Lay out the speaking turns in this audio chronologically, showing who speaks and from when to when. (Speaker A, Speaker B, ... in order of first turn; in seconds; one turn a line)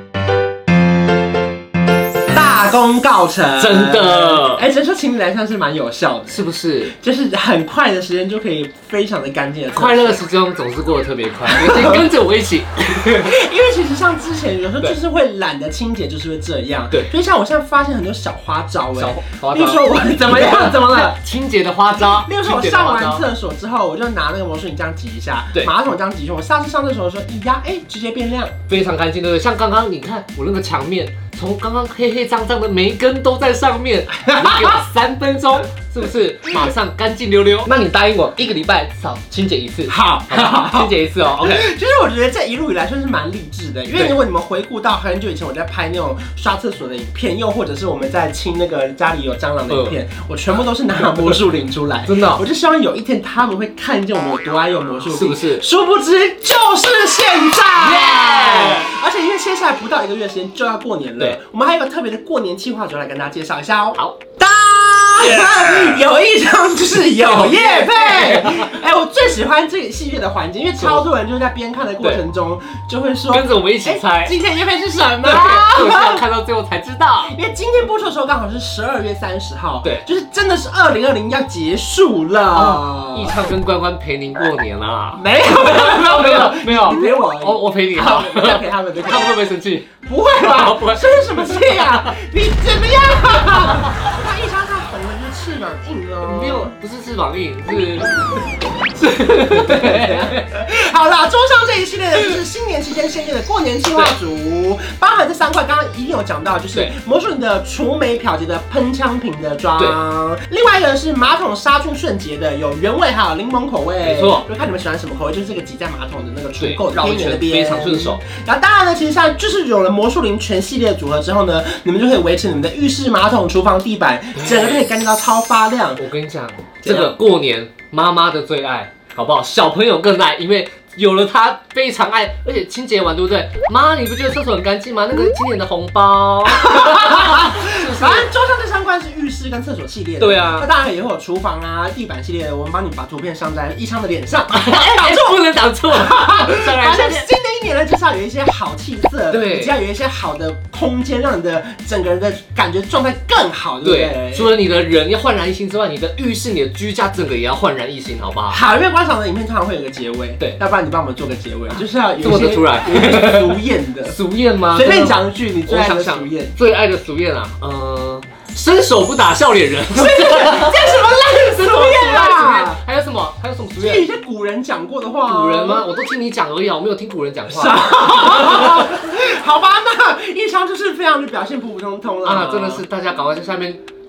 Speaker A: 2.3-10.2
Speaker B: 3.6-4.6
Speaker B: 6.3-6.9
Speaker B: 9.7-13.3
Speaker A: 11.5-12.1
Speaker A: 13.1-21.1
Speaker B: 18.9-23.2
Speaker A: 22.0-28.5
Speaker B: 28.7-41.7
Speaker A: 34.1-34.8
Speaker A: 39.9-76.2
Speaker B: 49.7-50.0
Speaker B: 52.0-52.4
Speaker B: 55.1-55.6
Speaker B: 57.8-58.9
Speaker B: 65.2-66.0
Speaker B: 67.2-68.8
Speaker B: 70.8-71.1
Speaker B: 72.0-72.2
Speaker B: 73.3-74.3
Speaker B: 75.2-77.3
Speaker A: 77.2-83.3
Speaker B: 82.5-92.1
Speaker A: 85.2-89.4
Speaker A: 90.0-96.7
Speaker B: 93.6-93.9
Speaker B: 96.2-98.1
Speaker B: 98.9-100.5
Speaker A: 99.5-126.0
Speaker B: 114.0-114.5
Speaker B: 116.6-118.2
Speaker B: 124.4-124.9
Speaker B: 126.0-138.3
Speaker A: 126.8-127.1
Speaker A: 136.5-145.4
Speaker B: 140.2-140.7
Speaker B: 144.5-147.3
Speaker A: 145.9-154.5
Speaker B: 149.3-149.7
Speaker B: 153.8-158.6
Speaker A: 158.5-164.2
Speaker B: 162.2-174.1
Speaker A: 164.7-166.6
Speaker A: 169.9-172.8
Speaker A: 173.8-175.9
Speaker B: 175.2-178.8
Speaker A: 177.5-182.8
Speaker B: 182.2-183.8